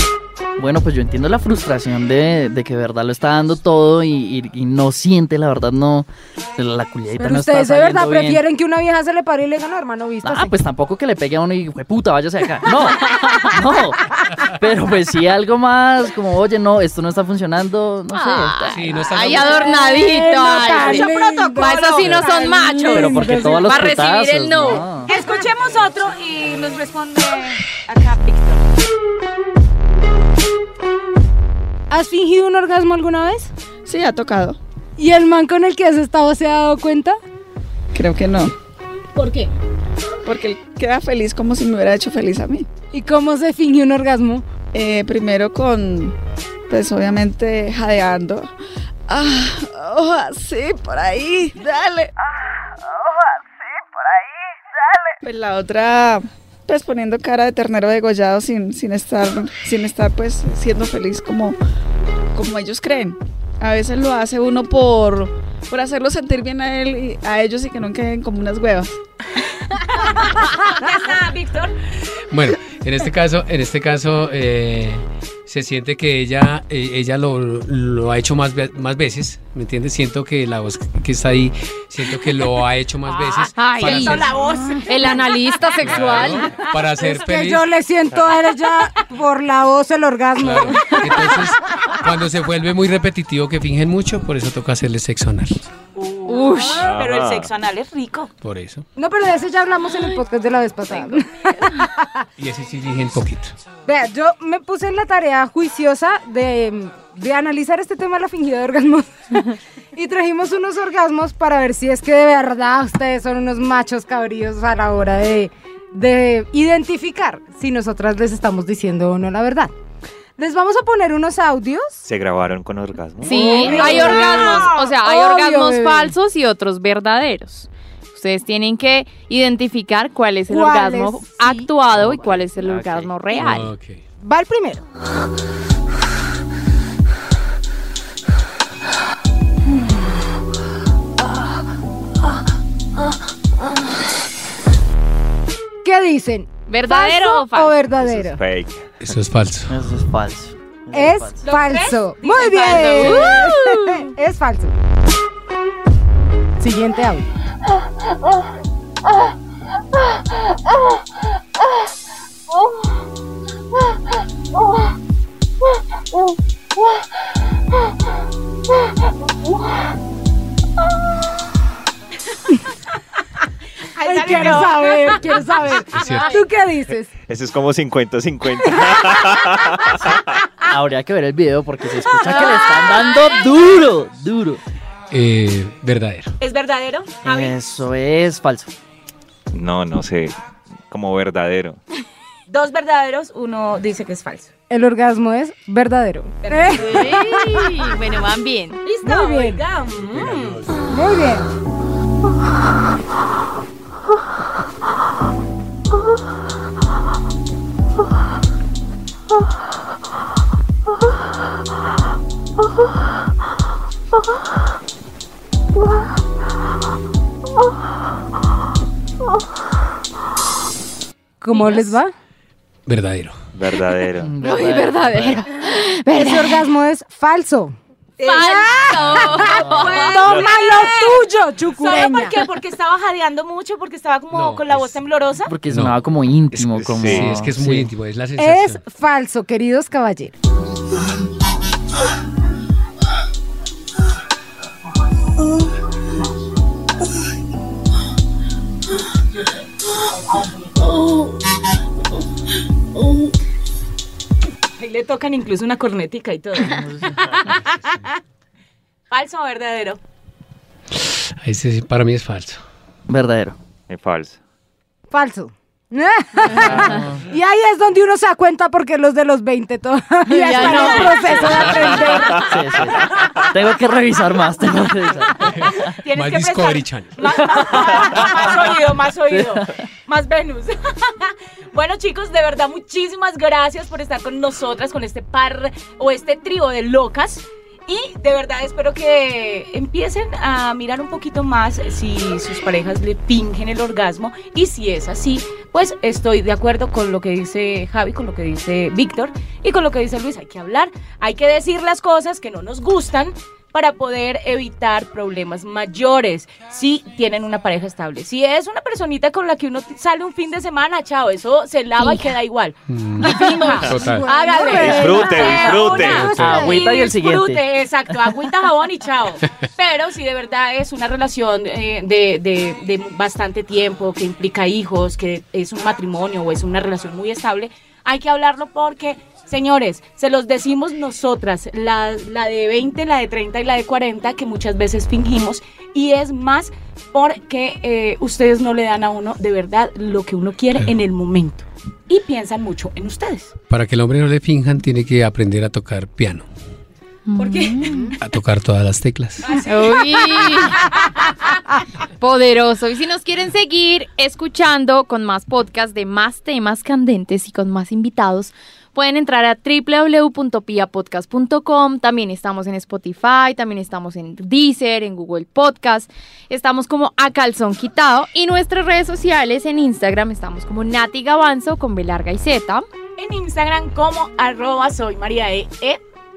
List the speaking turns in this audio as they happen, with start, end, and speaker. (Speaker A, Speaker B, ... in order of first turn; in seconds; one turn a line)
Speaker A: 0.6-8.4
Speaker B: 7.2-10.5
Speaker A: 10.2-19.0
Speaker C: 13.1-13.5
Speaker C: 18.1-24.9
Speaker D: 18.7-19.8
Speaker B: 19.4-23.7
Speaker E: 20.5-22.3
Speaker A: 22.9-25.1
Speaker E: 25.1-28.6
Speaker B: 31.9-33.5
Speaker F: 33.9-34.6
Speaker B: 35.0-37.2
Speaker F: 37.9-38.5
Speaker B: 39.2-39.5
Speaker F: 40.2-42.7
Speaker B: 42.9-44.5
Speaker F: 44.7-46.2
Speaker F: 46.7-48.5
Speaker F: 49.1-52.1
Speaker F: 55.2-61.6
Speaker F: 62.4-69.0
Speaker E: 69.7-71.7
Speaker D: 72.3-84.3
Speaker E: 83.2-85.3
Speaker C: 83.6-84.3
Speaker B: 84.5-85.2
Speaker C: 84.9-86.5
Speaker D: 85.8-87.7
Speaker B: 86.6-91.4
Speaker D: 90.4-95.7
Speaker E: 96.0-98.3
Speaker C: 96.3-96.9
Speaker G: 96.8-97.5
Speaker D: 98.4-98.8
Speaker B: 99.0-102.2
Speaker D: 102.4-103.5
Speaker B: 103.9-119.7
Speaker B: 120.4-122.0
Speaker G: 122.0-124.0
Speaker C: 123.2-133.7
Speaker B: 123.3-126.2
Speaker E: 123.5-124.8
Speaker B: 130.5-131.7
Speaker A: 131.9-133.1
Speaker D: 133.3-134.0
Speaker B: 134.2-134.8
Speaker B: 145.8-148.4
Speaker C: 146.7-147.8
Speaker G: 148.0-149.1
Speaker D: 149.0-149.7
Speaker A: 149.7-151.4
Speaker B: 150.9-154.8
Speaker E: 151.4-153.3
Speaker C: 152.9-154.1
Speaker B: 156.6-157.3
Speaker E: 173.9-175.5
Speaker B: 174.0-177.1
Speaker D: 175.9-176.3
Speaker G: 177.3-180.3
Speaker A: 180.7-184.6
Speaker D: 185.1-186.3
Speaker E: 186.4-187.6
Speaker A: 187.2-188.7
Speaker G: 189.5-190.3
Speaker G: 190.9-191.8
Speaker E: 192.5-194.5
Speaker B: 194.7-197.7
Speaker E: 196.4-197.0
Speaker C: 196.8-198.8
Speaker E: 198.8-200.6
Speaker B: 199.0-199.6
Speaker D: 200.1-200.9
Speaker B: 200.8-201.5
Speaker B: 221.4-222.1
Speaker C: 221.5-221.9
Speaker D: 222.9-223.4
Speaker G: 223.5-224.3
Speaker A: 224.2-225.4
Speaker C: 224.4-226.6
Speaker B: 226.1-227.8
Speaker E: 228.2-235.5
Speaker C: 228.3-230.3
Speaker B: 228.3-232.4
Speaker D: 234.3-234.9
Speaker A: 235.5-237.9
Speaker D: 235.7-236.0
Speaker G: 236.7-237.3
Speaker D: 237.0-238.8
Speaker B: 238.4-240.3
Speaker E: 254.8-258.2
Speaker A: 256.6-257.4
Speaker E: 259.1-260.0
Speaker D: 261.0-262.6
Speaker A: 263.1-263.6
Speaker G: 263.9-264.4
Speaker B: 265.1-272.6
Speaker A: 266.4-267.2
Speaker A: 270.3-275.9
Speaker C: 270.3-271.4
Speaker D: 275.5-277.2
Speaker E: 275.9-343.5
Speaker A: 277.6-278.7
Speaker A: 279.3-279.7
Speaker C: 312.0-312.3
Speaker D: 312.9-314.3
Speaker B: 313.2-317.1
Speaker G: 314.7-316.3
Speaker D: 316.1-316.8
Speaker A: 316.4-318.2
Speaker D: 343.7-346.5
Speaker C: 347.3-348.1
Speaker E: 347.4-348.1
Speaker D: 348.2-349.5
Speaker E: 349.4-350.5
Speaker C: 349.6-350.8
Speaker C: 352.2-372.9
Speaker E: 373.2-376.0